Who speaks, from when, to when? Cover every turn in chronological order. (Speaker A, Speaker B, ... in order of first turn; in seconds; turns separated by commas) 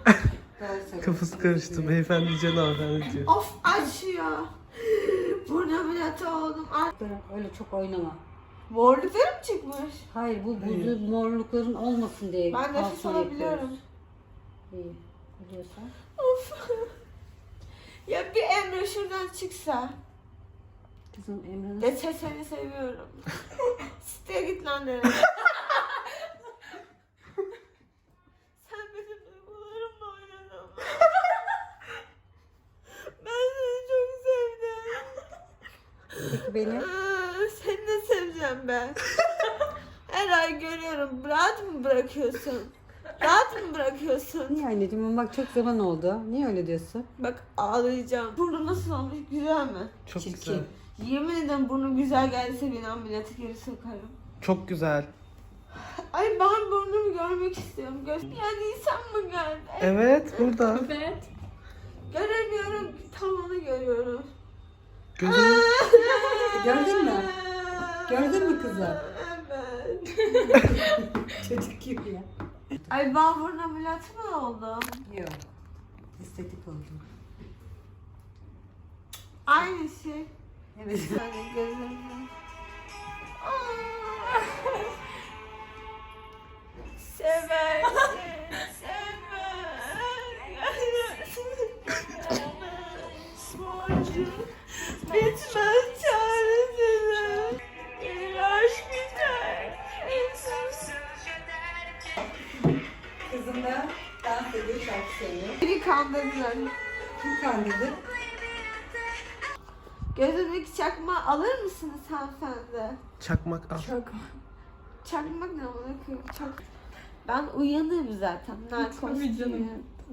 Speaker A: 0.6-2.1, Speaker B: 1.0-3.3, Speaker C: 3.2-6.9, Speaker A: 7.0-8.2, Speaker C: 8.7-10.1, Speaker A: 10.1-13.8, Speaker B: 10.6-10.9, Speaker C: 12.5-13.8, Speaker A: 14.7-15.9, Speaker C: 16.2-17.0, Speaker C: 18.1-20.0, Speaker A: 21.1-22.0, Speaker C: 21.8-26.1, Speaker C: 28.6-31.4, Speaker C: 32.9-35.3, Speaker A: 36.2-36.9, Speaker C: 36.6-44.6, Speaker A: 44.5-47.1, Speaker C: 47.2-49.9, Speaker B: 50.1-50.7, Speaker A: 50.1-50.7, Speaker C: 51.0-54.2, Speaker B: 54.4-55.1, Speaker C: 55.7-60.6, Speaker B: 59.8-60.9, Speaker C: 62.1-64.3, Speaker B: 65.2-65.7, Speaker C: 65.2-70.7, Speaker A: 66.5-67.3, Speaker A: 68.0-69.0, Speaker A: 70.6-72.9, Speaker C: 72.9-75.0, Speaker A: 75.0-75.5, Speaker A: 76.2-77.0, Speaker C: 79.5-80.3, Speaker A: 80.8-81.2, Speaker C: 81.1-82.3, Speaker C: 83.4-85.0, Speaker C: 87.0-101.3, Speaker A: 103.2-105.6, Speaker C: 105.6-106.7, Speaker A: 107.2-108.0, Speaker C: 110.1-113.0, Speaker B: 113.2-113.9, Speaker C: 115.0-116.6, Speaker C: 117.2-119.8